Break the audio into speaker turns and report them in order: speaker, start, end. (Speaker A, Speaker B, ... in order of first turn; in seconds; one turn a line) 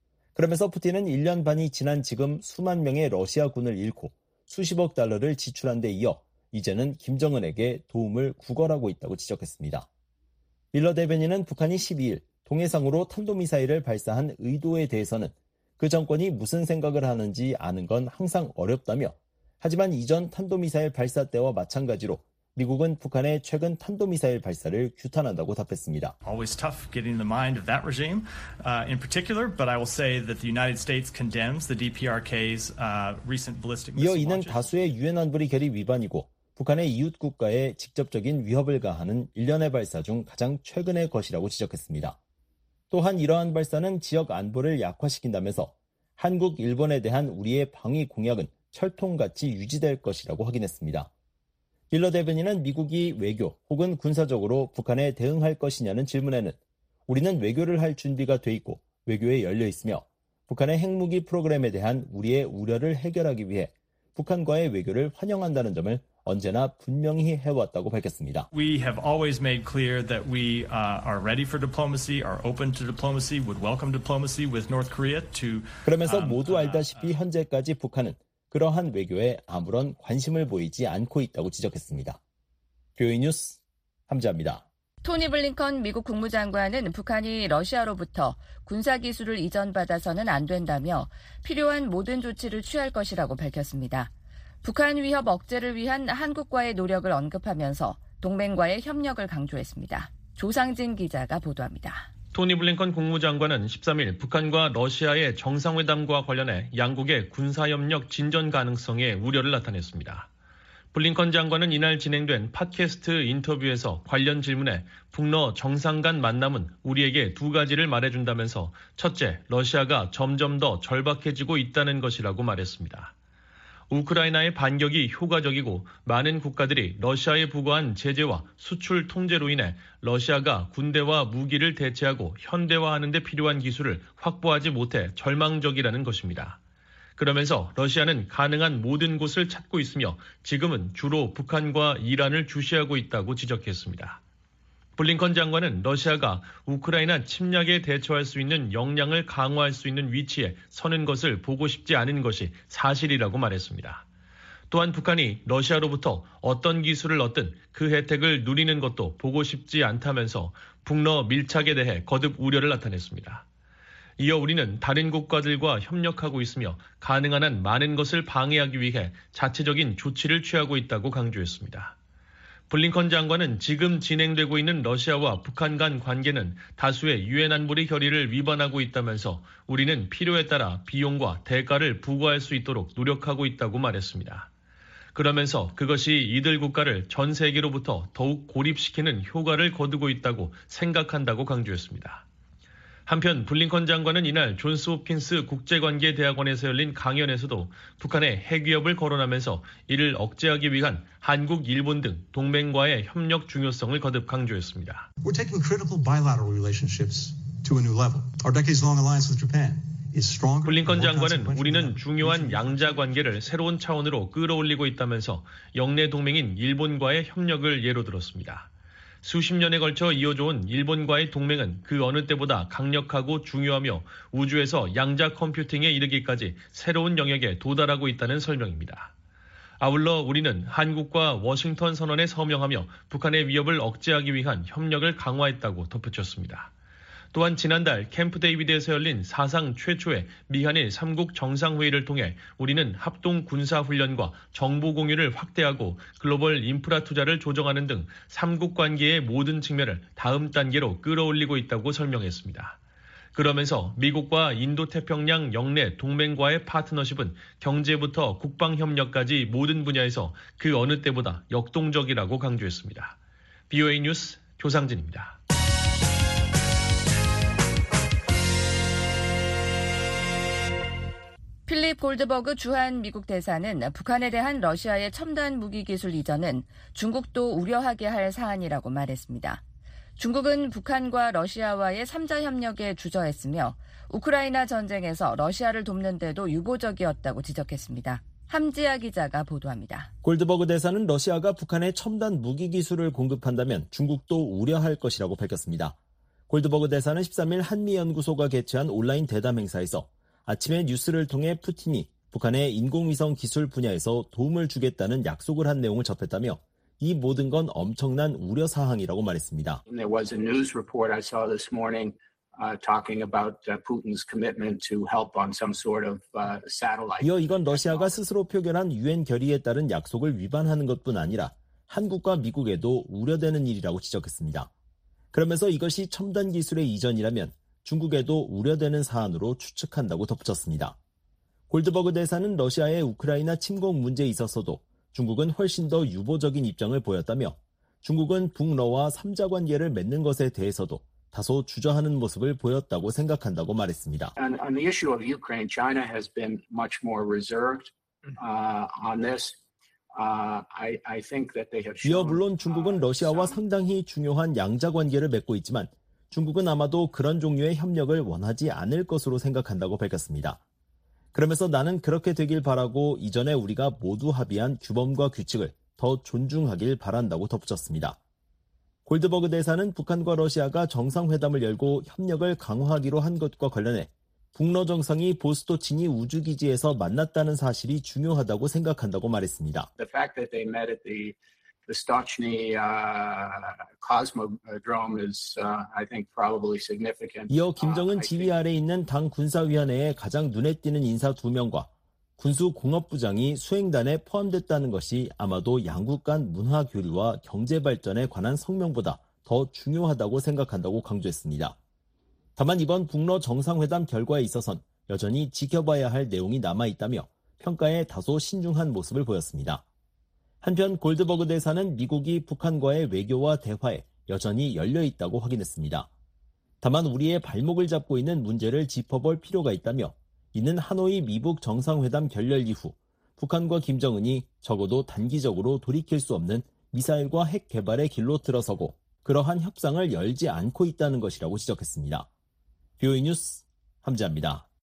Speaker A: 0.3-9.9
Speaker A: 10.7-26.1
Speaker B: 26.2-34.8
Speaker A: 34.0-42.2
Speaker A: 42.9-51.1
Speaker A: 51.9-68.5
Speaker B: 68.5-77.2
Speaker A: 75.9-82.2
Speaker A: 83.0-84.7
Speaker C: 85.0-94.1
Speaker C: 94.6-102.1
Speaker D: 102.3-110.3
Speaker D: 110.9-123.1
Speaker D: 123.9-136.6
Speaker D: 137.2-144.2
Speaker D: 145.0-154.0
Speaker D: 154.7-163.4
Speaker D: 164.2-171.9
Speaker D: 172.7-184.5
Speaker D: 185.2-192.2
Speaker D: 193.1-205.1
Speaker E: 205.2-213.0
Speaker D: 210.6-218.7
Speaker D: 219.2-229.1
Speaker D: 229.8-236.7
Speaker D: 237.3-252.8
Speaker D: 253.3-263.2
Speaker D: 263.7-265.4
Speaker C: 271.7-279.6
Speaker C: 280.2-290.1
Speaker A: 290.2-296.0
Speaker A: 296.5-309.8
Speaker F: 309.9-318.2
Speaker A: 317.2-324.7
Speaker A: 325.3-331.0
Speaker A: 331.7-344.3
Speaker F: 344.4-349.6
Speaker F: 350.1-353.6
Speaker A: 352.0-360.6
Speaker A: 361.3-368.2
Speaker A: 369.1-379.9
Speaker F: 380.0-381.4
Speaker F: 381.9-388.7
Speaker A: 387.5-401.8
Speaker A: 402.6-409.8
Speaker A: 410.6-416.1
Speaker A: 416.8-432.3
Speaker A: 433.0-434.7